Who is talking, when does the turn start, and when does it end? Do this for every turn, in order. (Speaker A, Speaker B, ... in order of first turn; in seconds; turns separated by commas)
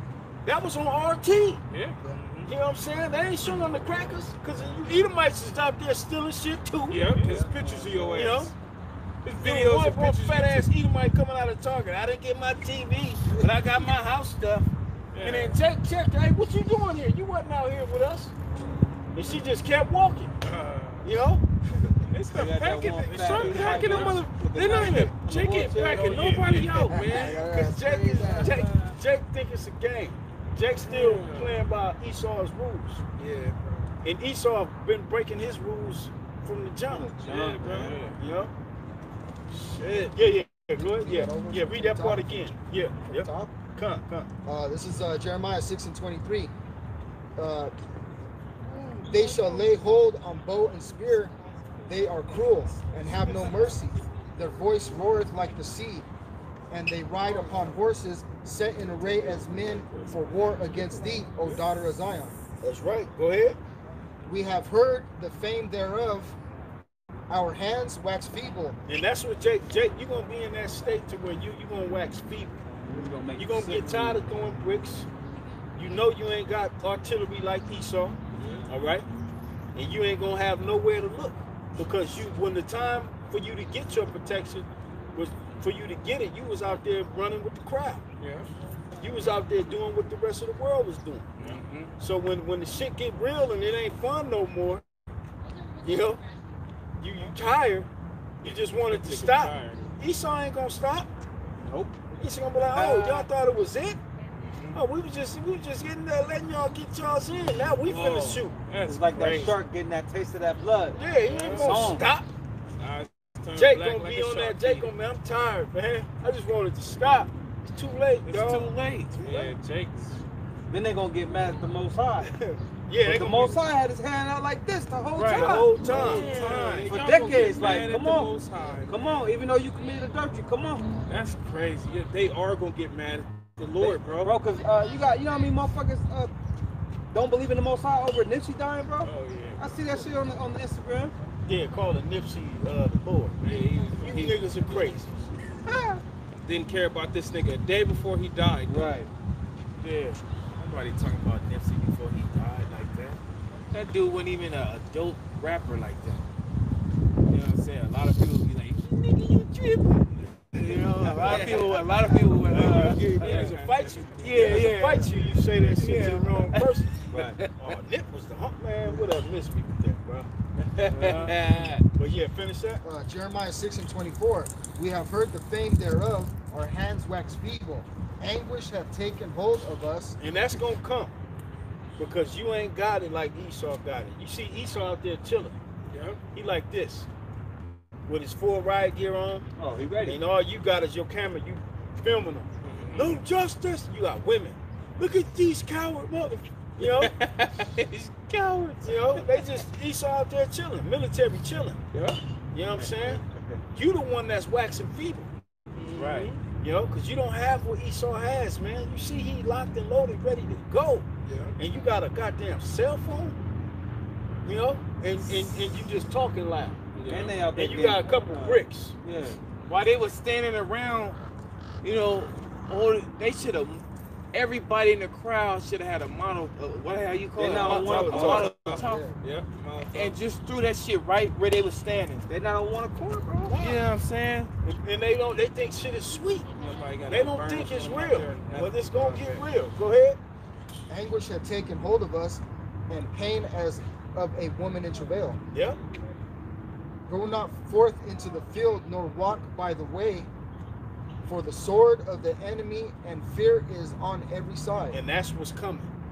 Speaker A: 0.4-1.6, Speaker B: 1.7-2.5, Speaker A: 2.5-7.3, Speaker B: 6.9-8.5, Speaker C: 7.2-8.0, Speaker A: 7.9-8.5, Speaker B: 9.2-10.7, Speaker A: 9.3-14.7, Speaker B: 15.1-15.6, Speaker A: 15.2-18.3, Speaker A: 19.1-20.4, Speaker B: 20.4-21.1, Speaker A: 21.0-22.0, Speaker B: 22.1-27.4, Speaker C: 22.3-26.3, Speaker A: 25.5-33.0, Speaker D: 26.3-27.0, Speaker E: 27.0-28.6, Speaker C: 28.1-28.6, Speaker B: 30.8-31.5, Speaker B: 33.2-33.9, Speaker A: 34.0-37.1, Speaker C: 37.2-37.9, Speaker B: 37.2-38.2, Speaker A: 38.1-38.5, Speaker B: 39.7-40.2, Speaker A: 40.1-44.3, Speaker E: 40.9-42.5, Speaker E: 43.0-43.5, Speaker E: 44.5-46.5, Speaker E: 47.4-47.7, Speaker E: 49.0-51.3, Speaker E: 51.9-56.0, Speaker E: 56.7-62.4, Speaker B: 59.0-60.6, Speaker A: 62.6-63.6, Speaker E: 64.2-66.3, Speaker E: 67.3-68.8, Speaker A: 68.9-72.6, Speaker C: 72.8-74.2, Speaker A: 73.4-75.1, Speaker A: 75.8-78.2, Speaker B: 78.4-78.7, Speaker A: 78.7-79.0, Speaker A: 79.7-88.0, Speaker B: 88.2-88.5, Speaker A: 89.0-94.8, Speaker B: 91.4-91.9, Speaker A: 95.8-96.2, Speaker A: 97.0-97.9, Speaker A: 98.4-101.1, Speaker B: 98.5-99.9, Speaker C: 101.6-101.9, Speaker A: 102.2-104.0, Speaker C: 102.7-103.3, Speaker A: 104.7-108.6, Speaker B: 107.8-109.5, Speaker C: 108.8-112.0, Speaker A: 109.2-109.5, Speaker A: 110.9-112.3, Speaker B: 111.2-112.0, Speaker B: 112.8-114.9, Speaker A: 113.5-118.7, Speaker D: 118.3-119.2, Speaker B: 119.2-120.2, Speaker C: 120.7-122.3, Speaker A: 122.9-123.6, Speaker C: 123.0-125.7, Speaker D: 125.1-127.5, Speaker A: 125.2-126.4, Speaker B: 125.9-129.2, Speaker C: 126.8-128.3, Speaker C: 128.9-130.9, Speaker B: 131.1-134.3, Speaker C: 133.8-136.3, Speaker C: 137.1-141.1, Speaker B: 139.0-139.6, Speaker A: 141.4-145.1, Speaker B: 143.4-145.0, Speaker C: 145.6-146.0, Speaker B: 146.4-148.9, Speaker C: 148.7-149.1, Speaker D: 149.8-153.2, Speaker D: 153.7-156.2, Speaker D: 157.2-159.8, Speaker D: 160.5-163.5, Speaker A: 161.2-167.0, Speaker B: 161.3-161.6, Speaker B: 162.7-164.6, Speaker D: 164.2-165.1, Speaker D: 165.7-167.8, Speaker C: 167.1-167.4, Speaker A: 167.6-170.3, Speaker B: 170.8-171.4, Speaker C: 170.8-171.4, Speaker D: 171.0-171.8, Speaker A: 171.9-172.8, Speaker E: 172.8-180.2, Speaker A: 180.2-181.1, Speaker A: 182.0-185.6, Speaker B: 185.9-186.2, Speaker A: 186.3-187.1, Speaker A: 188.1-189.4, Speaker C: 189.6-190.2, Speaker A: 190.0-197.1, Speaker B: 192.6-193.2, Speaker B: 196.8-198.9, Speaker D: 198.2-198.8, Speaker A: 198.8-201.8, Speaker B: 201.9-202.2, Speaker A: 202.5-203.2, Speaker A: 203.7-205.3, Speaker B: 205.8-206.4, Speaker A: 205.9-211.1, Speaker B: 211.3-211.5, Speaker A: 211.6-213.4, Speaker A: 214.4-216.8, Speaker D: 215.1-215.7, Speaker B: 216.9-217.4, Speaker C: 217.1-219.4, Speaker A: 217.5-218.9, Speaker D: 219.6-221.2, Speaker D: 221.8-229.0, Speaker C: 227.4-228.5, Speaker B: 227.5-230.1, Speaker A: 227.6-228.4, Speaker E: 228.6-229.2, Speaker D: 229.9-232.2, Speaker C: 232.3-233.8, Speaker D: 233.5-234.5, Speaker A: 234.6-236.5, Speaker B: 236.6-239.5, Speaker A: 237.1-240.2, Speaker E: 240.9-245.4, Speaker E: 247.1-250.3, Speaker E: 251.2-255.0, Speaker A: 254.9-255.9